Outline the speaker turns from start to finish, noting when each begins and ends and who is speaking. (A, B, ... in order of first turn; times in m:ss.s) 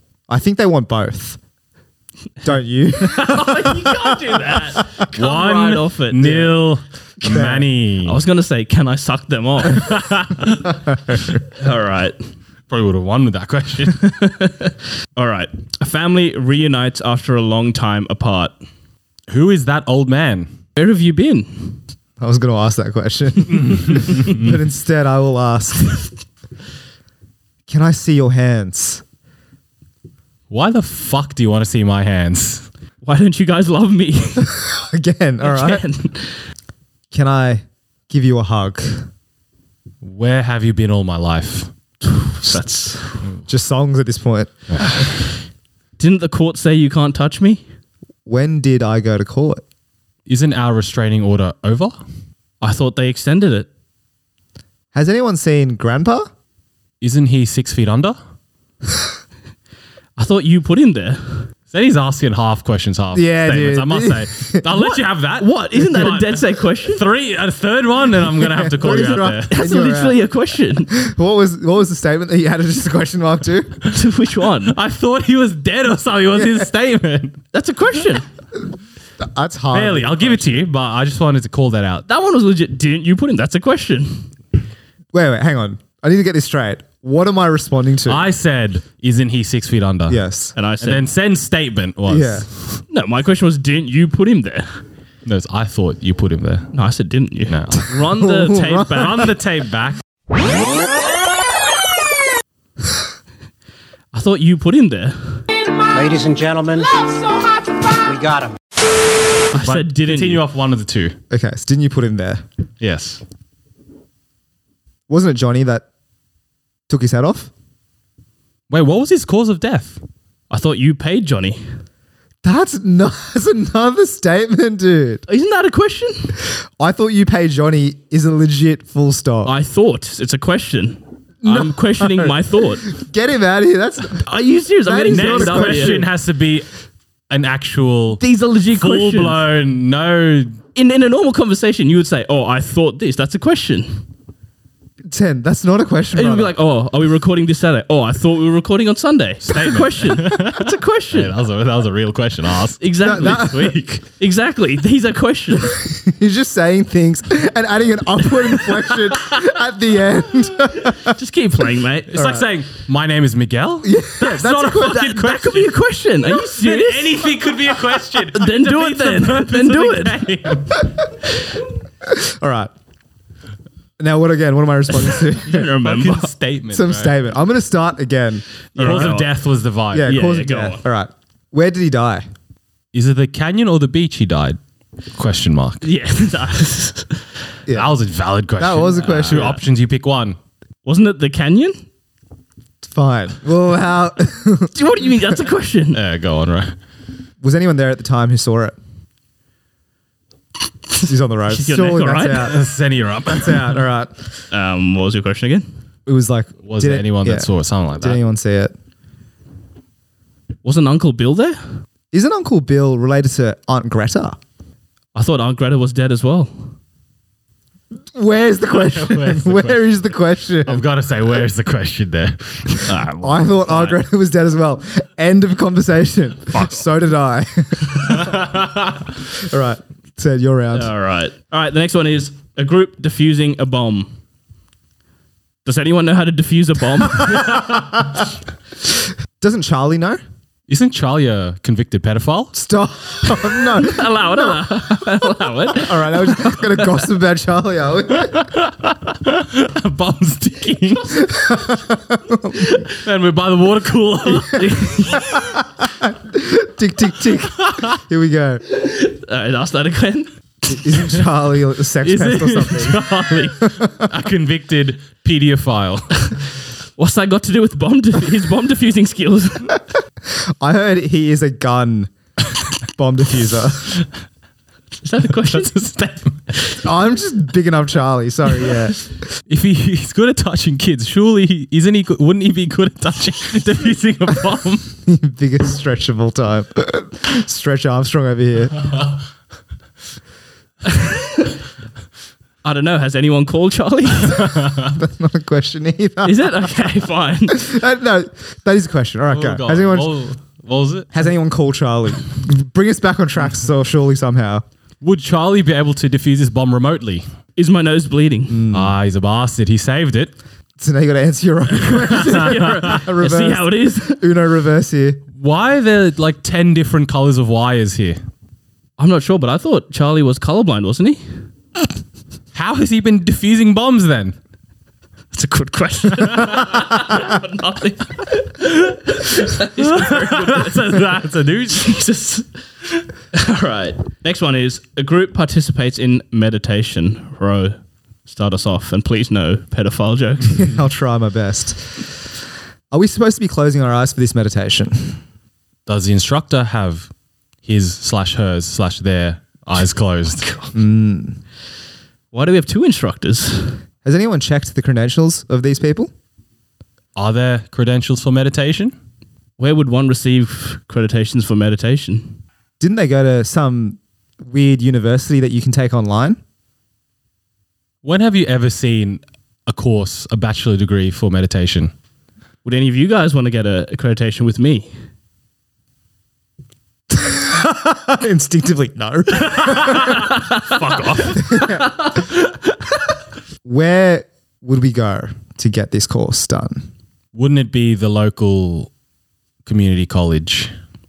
0:00.3-0:01.4 A
0:02.4-0:04.2 A
0:03.0-0:06.6 B
0:05.1-0:08.2 C
0:07.2-0:07.7 A
0:08.0-0:10.1 B
0:09.7-0:10.6 C
0:11.0-0:11.4 A
0:11.4-0:12.2 B
0:12.7-0:14.0 C
0:13.9-0:18.5 B
0:19.3-0:20.5 C
0:20.8-0:21.8 B
0:22.2-0:26.1 A
0:23.6-0:24.5 C
0:27.7-0:29.0 A
0:30.5-0:32.6 C
0:33.0-0:34.5 B
0:34.4-0:35.8 A
0:35.4-0:36.4 B
0:37.1-0:39.1 A
0:40.0-0:41.7 C
0:42.0-0:43.1 B
0:43.5-0:44.5 A
0:46.0-0:47.6 B
0:48.2-0:49.6 A
0:50.3-0:52.0 C
0:52.6-0:53.7 B
0:54.9-0:56.2 A
0:57.0-0:58.2 C
1:00.2-1:01.5 B
1:01.7-1:09.5 C
1:03.1-1:04.6 A
1:05.4-1:07.0 B
1:08.4-1:10.2 A
1:08.8-1:10.9 B
1:10.9-1:13.7 A
1:13.9-1:14.8 B
1:14.7-1:17.4 C
1:17.5-1:18.3 B
1:19.2-1:20.6 A
1:19.7-1:22.0 C
1:22.1-1:24.3 B
1:25.1-1:28.2 A
1:28.0-1:30.2 C
1:30.1-1:30.5 A
1:30.5-1:31.0 B
1:30.8-1:32.5 C
1:32.1-1:32.5 A
1:32.9-1:34.8 B
1:35.2-1:36.7 C
1:36.7-1:39.3 B
1:37.5-1:37.9 C
1:38.1-1:39.0 A
1:38.9-1:40.0 C
1:44.1-1:45.4 B
1:45.9-1:47.2 D
1:48.0-1:48.6 D
1:49.5-1:50.4 B
1:49.5-1:51.2 C
1:51.3-1:52.4 A
1:52.8-1:53.2 C
1:55.1-1:55.8 A
1:56.9-1:57.5 A
1:58.7-2:00.0 C
2:00.5-2:01.6 B
2:02.4-2:05.2 A
2:05.3-2:06.3 B
2:06.8-2:09.5 A
2:09.4-2:12.9 B
2:11.4-2:12.4 A
2:12.9-2:14.2 A
2:14.1-2:16.0 B
2:14.8-2:16.1 A
2:15.1-2:16.6 C
2:17.3-2:18.2 C
2:18.2-2:19.4 B
2:18.7-2:20.6 C
2:20.7-2:24.0 B
2:25.1-2:26.5 A
2:26.1-2:31.3 B
2:29.4-2:32.8 C
2:32.8-2:35.8 B
2:33.0-2:33.8 A
2:35.8-2:41.1 A
2:39.1-2:39.4 B
2:40.8-2:42.4 B
2:42.1-2:50.9 C
2:42.2-2:42.4 A
2:43.8-2:45.1 A
2:44.2-2:47.5 B
2:48.3-2:50.6 B
2:52.0-2:52.7 A
2:54.0-2:55.7 A
2:55.2-2:56.3 B
2:55.8-2:57.1 C
2:56.7-2:59.1 A
2:58.7-2:59.3 B
2:58.8-3:00.1 C
2:59.9-3:02.2 A
3:00.0-3:00.8 B
3:02.9-3:04.6 C
3:05.1-3:05.8 C
3:05.8-3:07.2 B
3:07.7-3:07.9 A
3:07.7-3:10.4 C
3:08.6-3:09.5 A
3:08.9-3:09.6 B
3:10.8-3:11.8 B
3:12.8-3:14.7 A
3:14.7-3:16.0 B
3:15.9-3:16.8 C
3:17.4-3:18.8 A
3:20.9-3:22.5 B
3:21.0-3:22.6 A
3:22.4-3:23.8 C
3:23.3-3:24.1 A
3:24.5-3:25.6 B
3:26.0-3:28.7 A
3:26.6-3:28.2 C
3:30.6-3:31.6 B
3:32.1-3:34.4 A
3:35.1-3:36.7 B
3:38.1-3:40.8 A
3:38.8-3:39.8 C
3:40.6-3:42.9 C
3:42.8-3:44.0 B
3:43.2-3:48.4 A
3:46.5-3:46.8 B
3:48.1-3:48.9 C
3:49.4-3:50.9 A
3:50.7-3:54.1 B
3:55.6-3:57.7 B
3:57.5-3:58.1 A
3:59.4-4:00.2 A
4:00.7-4:02.6 C
4:02.5-4:04.7 A
4:03.6-4:07.0 B
4:05.7-4:08.4 A
4:08.2-4:11.3 C
4:11.2-4:12.7 A
4:12.9-4:14.8 C
4:14.4-4:18.6 A
4:14.5-4:15.6 B
4:17.6-4:17.9 C
4:18.7-4:20.3 B
4:20.7-4:23.0 A
4:22.0-4:26.1 C
4:22.6-4:22.9 B
4:23.6-4:24.1 A
4:27.0-4:29.8 B
4:30.6-4:32.1 A
4:32.9-4:33.9 A
4:35.0-4:35.8 B
4:35.5-4:36.4 C
4:36.8-4:39.0 A
4:39.5-4:44.9 C
4:45.0-4:48.9 A
4:50.9-4:51.5 B
4:52.6-4:54.5 B
4:54.3-4:54.9 C
4:54.8-4:56.9 A
4:56.2-4:57.6 B
4:57.5-5:00.1 A
4:59.3-5:01.1 C
5:01.1-5:04.6 A
5:05.0-5:07.2 C
5:07.6-5:08.6 B
5:08.5-5:08.9 A
5:08.7-5:10.3 C
5:10.8-5:15.2 A
5:12.1-5:14.2 B
5:15.3-5:18.2 C
5:19.0-5:21.2 B
5:22.5-5:24.3 C
5:25.3-5:31.1 B
5:26.4-5:26.7 C
5:29.4-5:31.9 C
5:31.7-5:40.7 B
5:40.5-5:42.1 A
5:42.9-5:45.2 A
5:45.9-5:47.1 C
5:47.6-5:50.4 C
5:50.4-5:50.7 B
5:50.7-5:51.4 A
5:52.3-5:53.8 B
5:54.0-5:56.1 A
5:57.2-5:58.9 C
5:59.6-6:02.4 B
6:02.8-6:06.4 A
6:08.0-6:11.9 C
6:12.6-6:14.9 B
6:17.1-6:20.1 A
6:19.4-6:21.6 C
6:20.1-6:22.5 B
6:21.3-6:21.9 A
6:23.6-6:26.8 A
6:27.3-6:28.9 C
6:29.6-6:30.7 C